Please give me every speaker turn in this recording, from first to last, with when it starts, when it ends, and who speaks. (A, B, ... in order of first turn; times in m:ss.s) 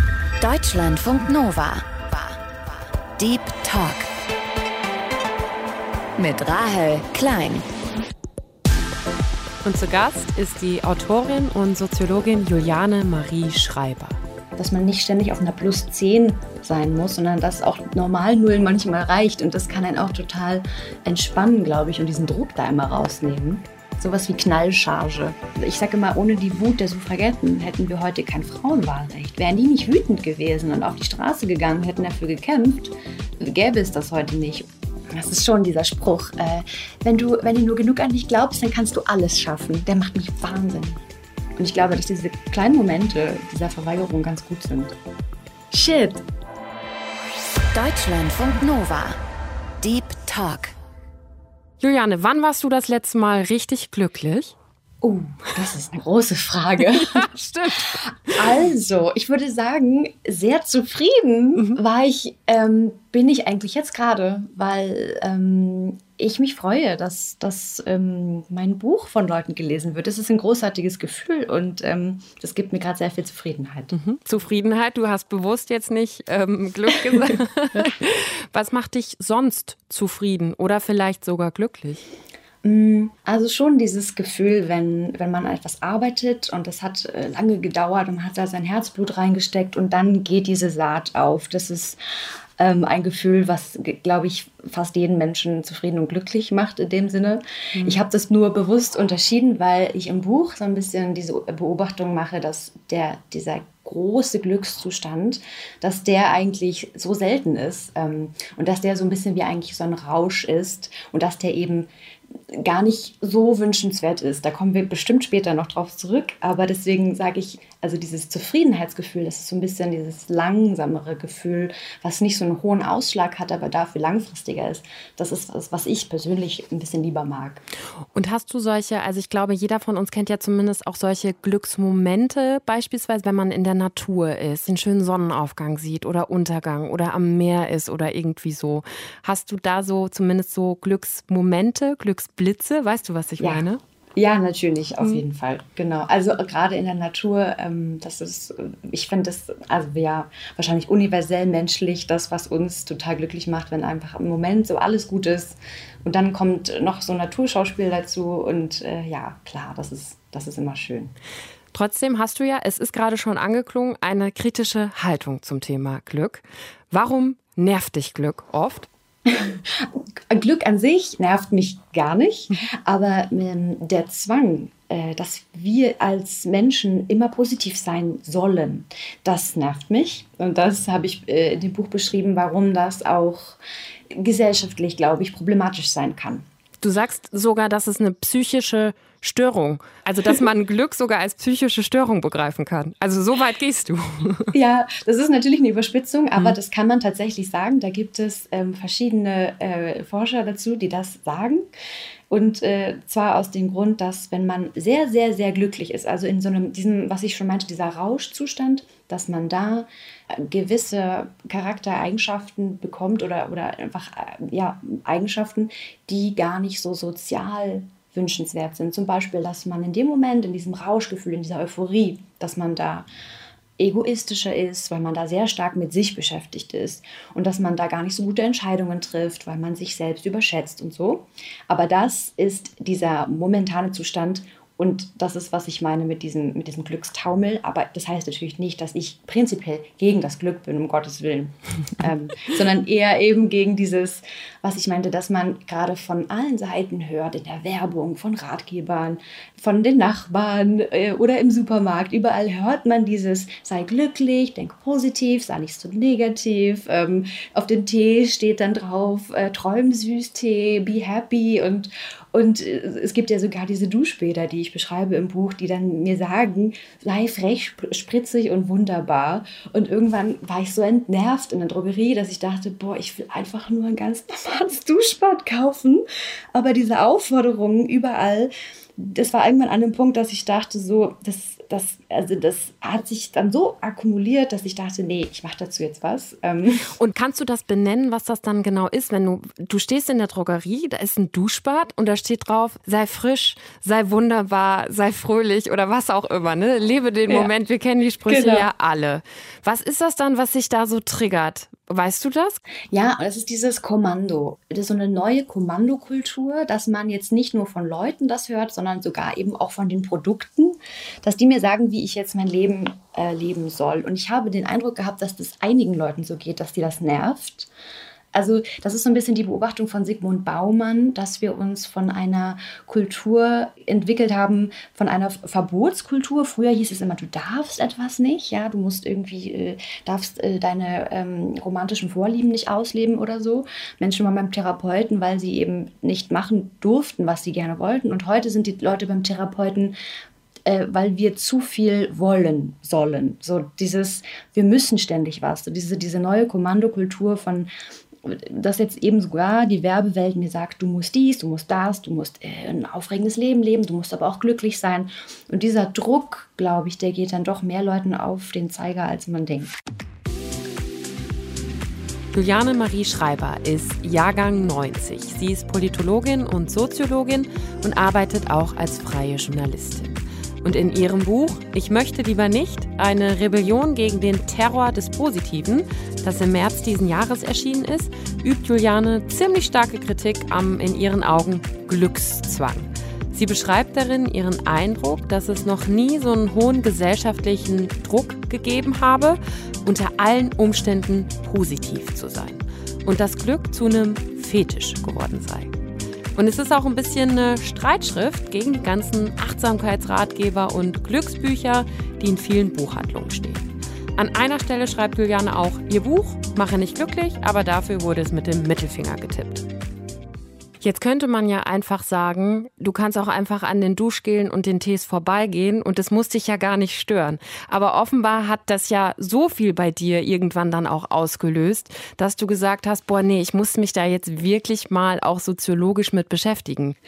0:00.4-0:04.1 A
0:06.2-0:07.7 A
0:09.6-0:14.2 B
0:14.6-0:41.0 C
0:41.6-0:45.0 C
0:45.7-0:46.2 C
0:47.7-0:49.2 A
0:49.8-0:50.7 A
0:51.8-0:54.6 B
0:55.0-0:57.3 C
0:56.9-0:58.5 B
0:58.1-1:13.9 C
1:13.9-1:22.0 B
1:22.6-1:32.0 C
1:32.6-1:51.9 C
1:37.8-1:38.0 B
1:52.5-2:07.6 C
2:08.2-2:23.8 B
2:23.4-2:23.6 C
2:24.2-2:41.1 C
2:41.7-2:48.9 B
2:49.3-3:06.4 C
3:06.8-3:14.5 B
3:14.5-3:21.6 C
3:22.3-3:43.1 C
3:43.8-4:46.9 C
4:47.0-5:02.6 B
4:58.3-4:58.7 C
5:02.9-5:17.7 C
5:18.3-5:40.0 C
5:40.7-5:47.7 C
5:48.2-5:59.7 C
6:02.3-6:35.7 B
6:36.4-6:43.6 B
6:44.2-6:49.7 B
6:50.8-7:07.0 B